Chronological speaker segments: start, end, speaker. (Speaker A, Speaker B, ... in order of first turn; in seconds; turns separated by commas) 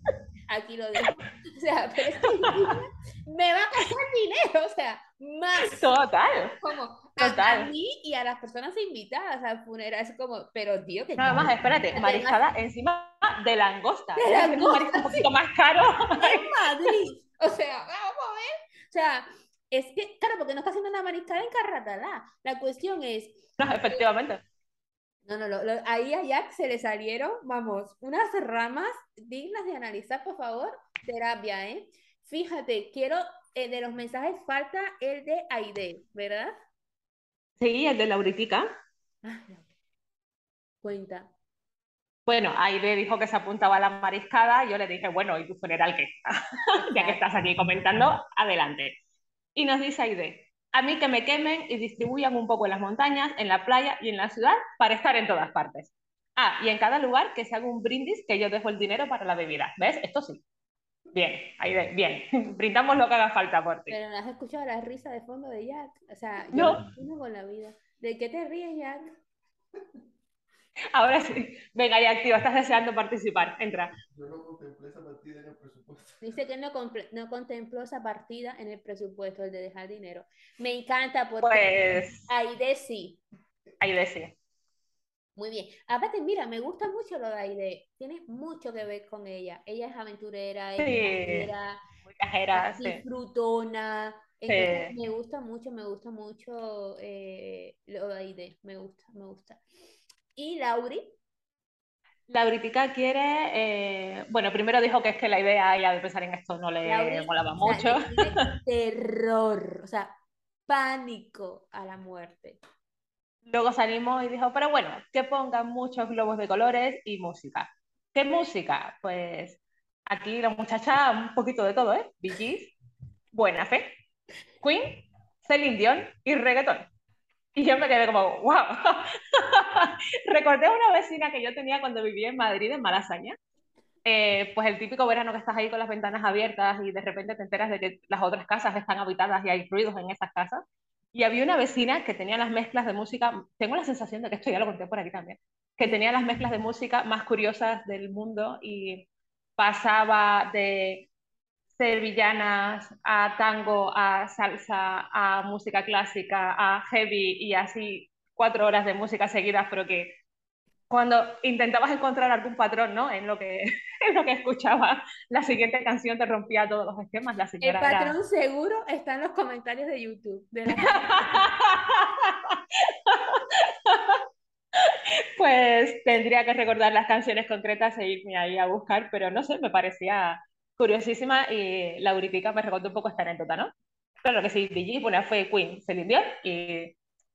Speaker A: 0.5-5.9, Speaker B: 5.6-6.5, Speaker A: 6.6-12.4, Speaker B: 7.2-7.7, Speaker B: 11.2-16.4, Speaker A: 14.2-15.3, Speaker A: 16.2-24.0, Speaker B: 23.6-24.4, Speaker A: 25.3-36.5, Speaker B: 37.6-38.7, Speaker A: 39.2-39.7, Speaker A: 40.8-41.3, Speaker B: 42.3-49.0, Speaker A: 46.8-47.2, Speaker B: 49.5-60.4, Speaker B: 61.1-64.0, Speaker A: 63.9-69.1, Speaker B: 66.5-66.8, Speaker B: 70.9-73.9, Speaker C: 74.1-76.1, Speaker A: 76.2-83.2, Speaker B: 81.4-82.3, Speaker B: 83.8-84.3, Speaker A: 85.3-91.8, Speaker B: 90.8-91.5, Speaker B: 92.1-93.0, Speaker A: 92.5-99.6, Speaker B: 94.5-94.9, Speaker A: 100.3-101.2, Speaker B: 102.3-108.4, Speaker A: 106.8-110.1, Speaker A: 110.7-112.6, Speaker B: 113.5-122.7, Speaker B: 123.3-123.9, Speaker B: 124.6-126.8, Speaker B: 127.5-133.4, Speaker B: 134.1-140.6, Speaker B: 141.1-149.1, Speaker B: 149.6-151.1, Speaker B: 151.7-160.1, Speaker B: 160.9-168.2, Speaker A: 167.6-171.4, Speaker B: 170.7-174.2, Speaker B: 174.8-183.7, Speaker B: 184.2-186.9